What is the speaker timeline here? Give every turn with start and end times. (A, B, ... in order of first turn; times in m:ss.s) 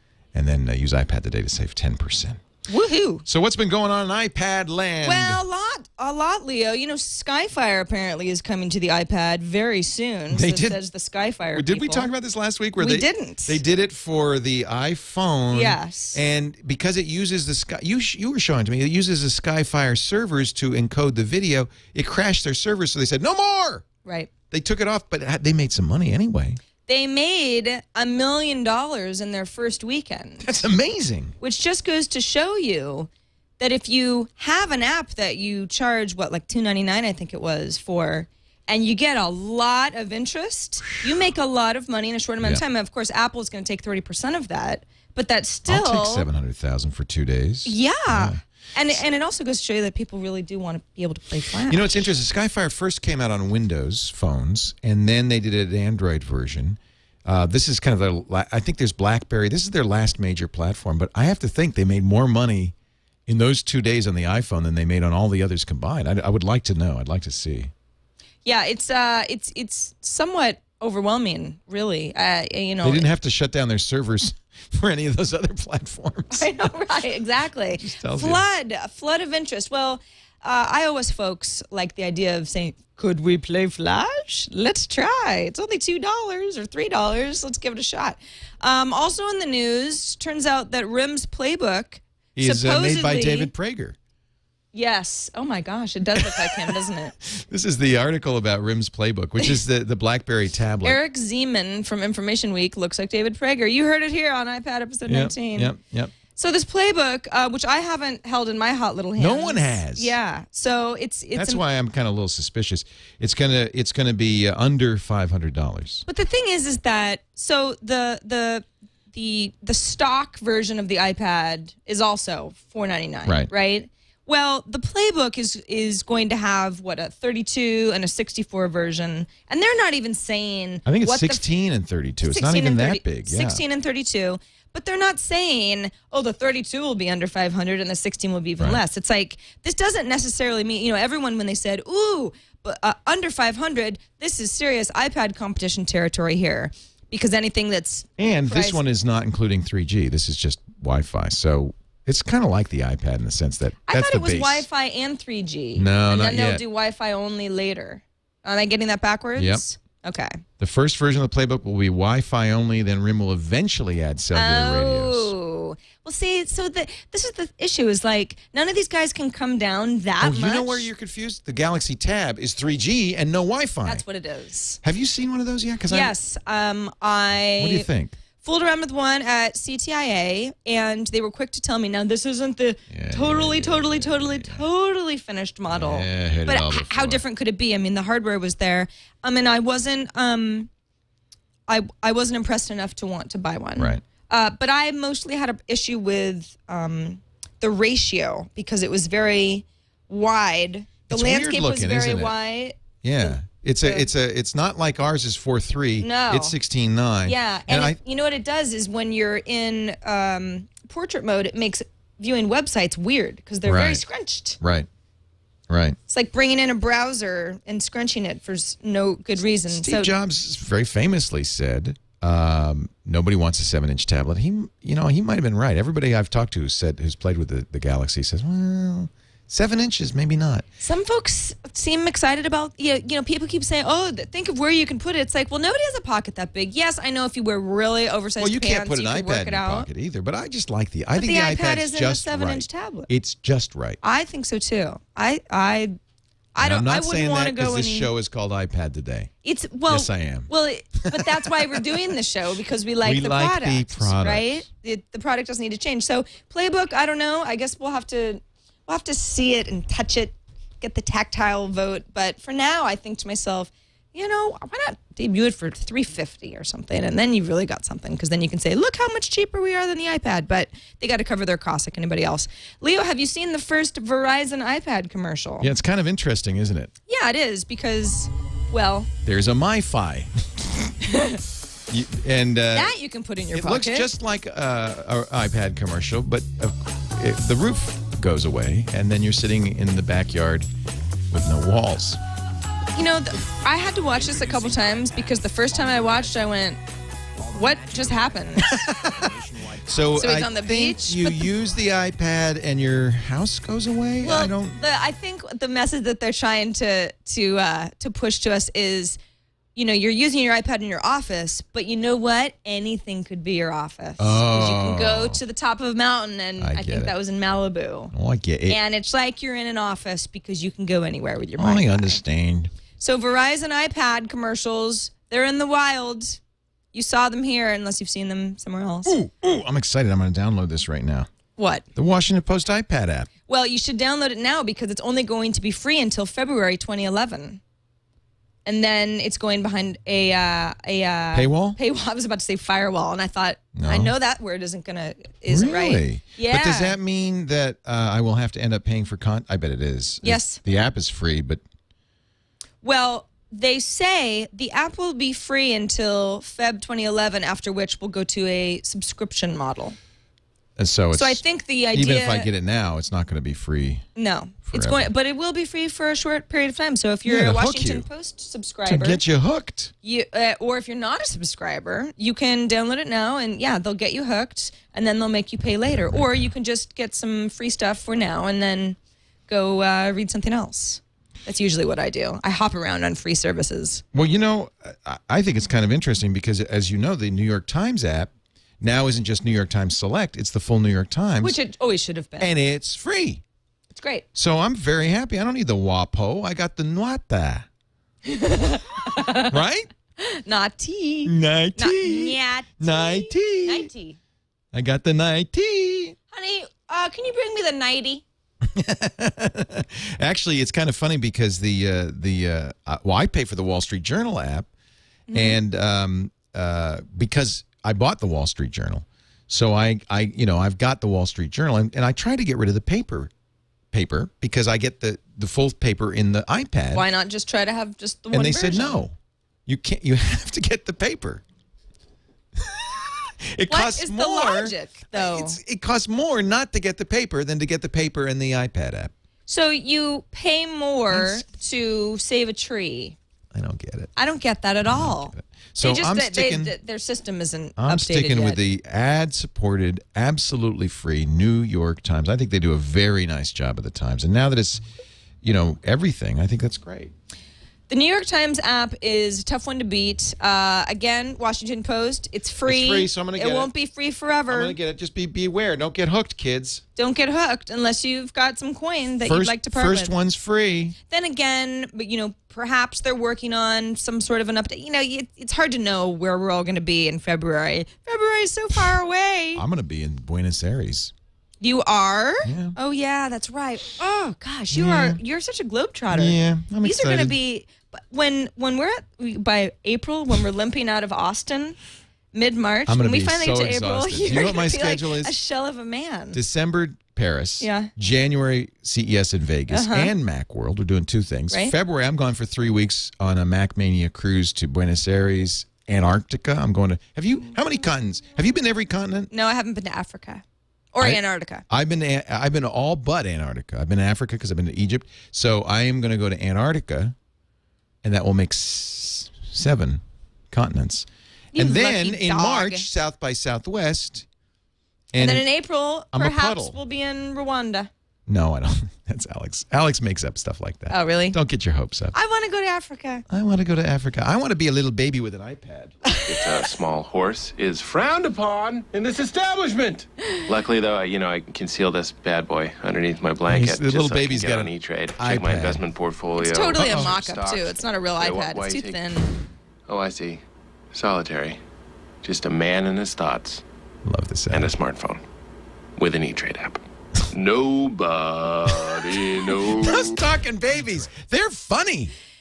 0:00.3-0:02.4 A
0:02.7-0:03.2 B
0:03.2-0:05.4 A
0:05.0-0:12.1 B
0:10.3-0:10.8 A
0:11.5-0:23.8 A
0:12.8-0:13.6 B
0:15.5-0:16.2 B
0:24.0-0:24.3 B
0:24.5-0:26.6 A
0:26.9-0:30.5 B
0:30.4-0:31.4 A
0:31.4-0:46.3 B
0:45.7-0:48.4 A
0:47.6-0:52.1 B
0:51.7-1:02.7 A
1:03.3-1:07.7 A
1:08.4-1:13.1 B
1:12.8-1:16.5 A
1:16.3-1:33.5 B
1:17.8-1:18.4 A
1:32.4-1:34.0 A
1:34.7-1:37.2 B
1:36.2-1:41.0 A
1:40.8-1:45.7 B
1:45.1-1:46.1 A
1:46.4-1:51.6 B
1:49.2-1:50.2 A
1:51.4-1:56.0 A
1:56.1-2:11.5 B
2:03.2-2:03.5 A
2:10.8-2:13.6 A
2:12.2-2:28.8 B
2:28.2-2:34.7 A
2:33.9-2:40.4 B
2:35.8-2:36.6 A
2:39.4-2:39.6 A
2:40.6-2:45.3 A
2:44.3-2:50.9 B
2:50.2-2:54.0 A
2:53.8-2:54.8 B
2:54.8-2:56.1 A
2:55.9-2:57.9 B
2:57.6-2:58.2 A
2:58.4-3:10.7 B
3:02.9-3:04.6 A
3:05.7-3:07.2 A
3:11.7-3:24.1 B
3:13.8-3:14.0 A
3:21.1-3:22.4 A
3:23.0-3:28.0 A
3:26.0-3:26.6 B
3:27.2-3:34.6 B
3:33.6-3:34.0 A
3:34.6-3:34.9 A
3:35.7-3:36.0 A
3:36.1-3:40.1 B
3:39.7-3:50.6 A
3:50.8-3:59.9 B
3:58.4-4:04.0 A
4:01.2-4:03.1 B
4:04.0-4:06.0 B
4:06.6-4:08.1 B
4:06.6-4:09.3 A
4:09.4-4:35.7 B
4:09.9-4:11.8 A
4:13.0-4:14.6 A
4:35.6-4:36.9 A
4:37.1-4:39.1 B
4:39.2-4:40.9 A
4:41.0-4:41.4 B
4:41.9-4:42.9 A
4:42.7-4:44.1 B
4:43.5-4:50.7 A
4:51.3-4:52.2 A
4:52.9-4:56.8 B
4:57.5-4:58.8 B
4:58.6-5:04.8 A
5:00.2-5:01.5 B
5:04.2-5:09.2 B
5:09.8-5:18.1 B
5:14.2-5:15.4 A
5:16.6-5:17.2 A
5:18.1-5:18.8 A
5:18.7-5:22.2 B
5:21.6-5:22.7 A
5:23.0-5:26.4 B
5:26.9-5:29.2 B
5:29.1-5:31.3 A
5:31.6-5:31.8 B
5:32.0-5:33.3 A
5:33.5-5:37.6 B
5:38.6-5:47.0 B
5:41.3-5:41.8 A
5:43.8-5:44.1 A
5:45.5-5:51.6 A
5:50.2-5:50.6 B
5:52.8-6:00.0 B
6:00.8-6:04.1 A
6:01.1-6:02.5 B
6:04.2-6:09.2 B
6:04.7-6:05.1 A
6:07.3-6:08.1 A
6:08.9-6:09.9 A
6:10.0-6:19.0 B
6:19.5-6:24.0 B
6:24.1-6:31.6 A
6:31.4-6:32.5 B
6:32.4-6:33.4 A
6:33.9-6:34.3 B
6:34.4-6:37.7 A
6:38.3-6:39.6 B
6:39.5-6:39.9 A
6:40.2-6:44.2 B
6:41.3-6:43.9 A
6:44.7-6:46.2 A
6:46.3-6:48.2 B
6:48.6-6:54.7 A
6:55.3-6:55.6 B
6:55.3-7:03.3 A
7:03.9-7:07.0 A
7:06.9-7:09.0 B
7:08.3-7:09.2 A
7:09.7-7:11.4 A
7:12.6-7:19.1 A
7:13.7-7:15.6 B
7:19.5-7:23.2 B
7:21.1-7:21.4 A
7:23.5-7:24.1 A
7:24.2-7:28.6 B
7:24.8-7:26.7 A
7:27.8-7:34.8 A
7:35.4-7:37.1 A
7:37.9-7:44.8 B
7:42.6-7:43.7 A
7:44.5-7:46.8 A
7:47.0-7:50.1 B
7:49.2-7:51.0 A
7:51.1-7:59.6 B
7:59.5-8:01.1 A
8:01.6-8:11.8 B
8:02.4-8:02.8 A
8:04.7-8:05.2 A
8:06.1-8:07.4 A
8:12.3-8:16.4 B
8:12.9-8:15.4 A
8:16.3-8:29.3 A
8:17.6-8:17.9 B
8:19.7-8:20.1 B
8:29.3-8:31.6 B
8:31.0-8:37.2 A
8:38.0-8:44.2 A
8:41.5-8:42.9 B
8:45.1-8:45.5 A
8:45.2-8:47.9 B
8:46.1-8:46.8 A
8:48.3-8:52.2 A
8:50.9-8:51.4 B
8:52.1-8:53.2 B
8:53.3-8:56.0 A
8:56.3-9:09.2 C
9:03.5-9:05.8 A
9:06.4-9:09.3 B
9:06.8-9:07.1 A
9:09.9-9:11.6 C
9:12.2-9:13.6 C
9:14.0-9:14.7 A
9:14.5-9:15.2 C
9:16.0-9:20.2 C
9:18.7-9:22.2 A